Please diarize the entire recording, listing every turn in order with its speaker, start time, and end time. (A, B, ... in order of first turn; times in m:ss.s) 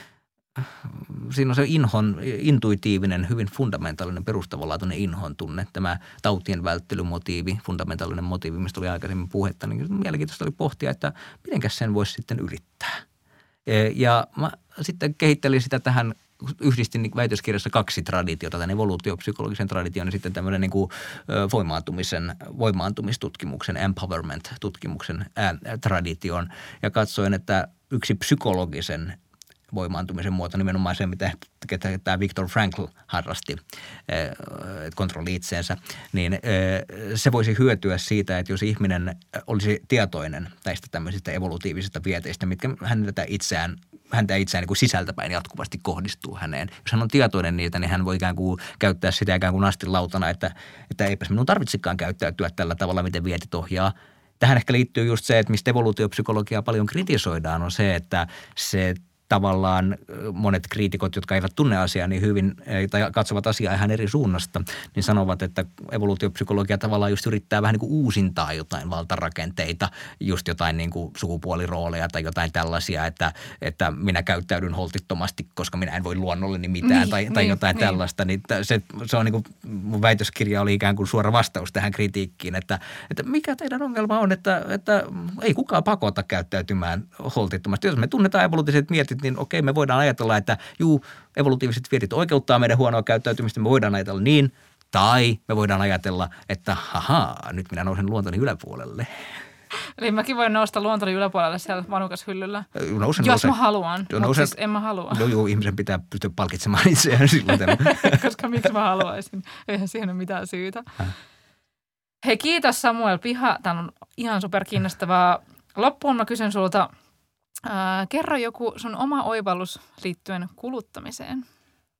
0:00.6-0:13.0 A
0:13.6-0:29.2 A
0:29.7-1:39.1 A
1:16.8-1:18.0 B
1:40.0-1:42.7 B
1:42.8-1:43.6 A
1:43.2-1:45.2 B
1:44.1-1:44.5 A
1:45.1-1:48.2 A
1:47.6-1:50.9 B
1:52.2-1:56.9 B
1:57.6-2:01.4 B